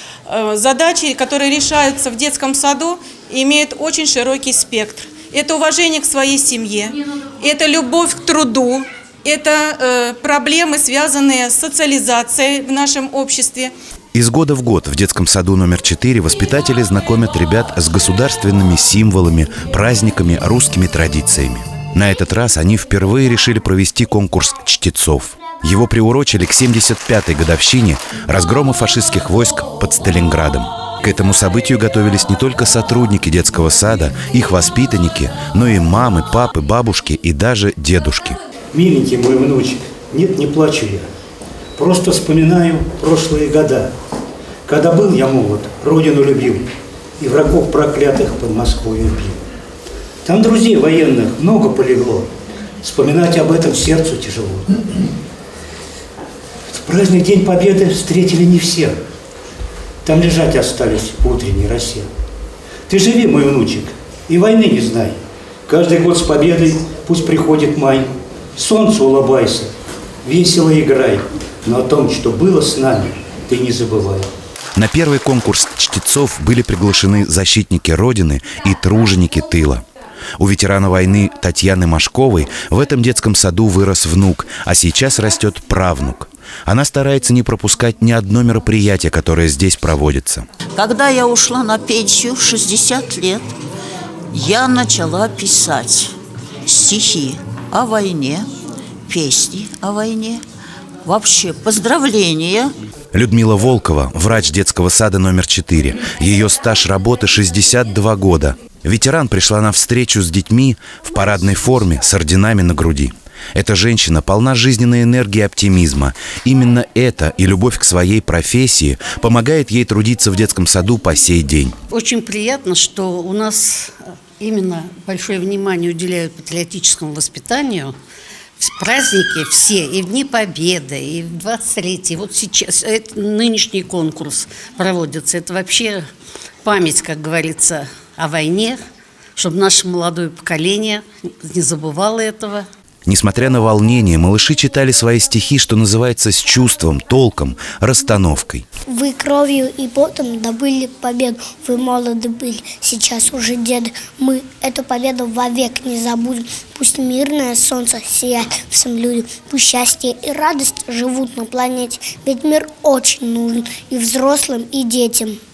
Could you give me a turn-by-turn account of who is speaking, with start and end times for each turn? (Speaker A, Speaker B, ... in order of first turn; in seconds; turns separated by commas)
Speaker A: 0.3-13.7, Speaker B: 14.1-38.4, Speaker C: 38.7-41.1, Speaker C: 41.8-43.9, Speaker C: 44.6-46.6, Speaker C: 47.2-49.4, Speaker C: 50.2-52.3, Speaker C: 52.8-54.8, Speaker C: 56.7-59.0, Speaker C: 60.0-62.1, Speaker C: 62.9-69.7, Speaker C: 70.2-74.3, Speaker B: 74.8-79.8, Speaker B: 80.4-90.5, Speaker D: 90.8-93.5, Speaker D: 94.3-96.1, Speaker D: 96.7-98.5, Speaker D: 99.1-100.4, Speaker D: 101.0-102.7, Speaker B: 103.1-121.7, Speaker E: 121.9-127.9, Speaker E: 128.6-136.0, Speaker E: 136.6-138.8, Speaker E: 139.4-142.7, Speaker B: 143.1-148.6, Speaker F: 148.9-165.4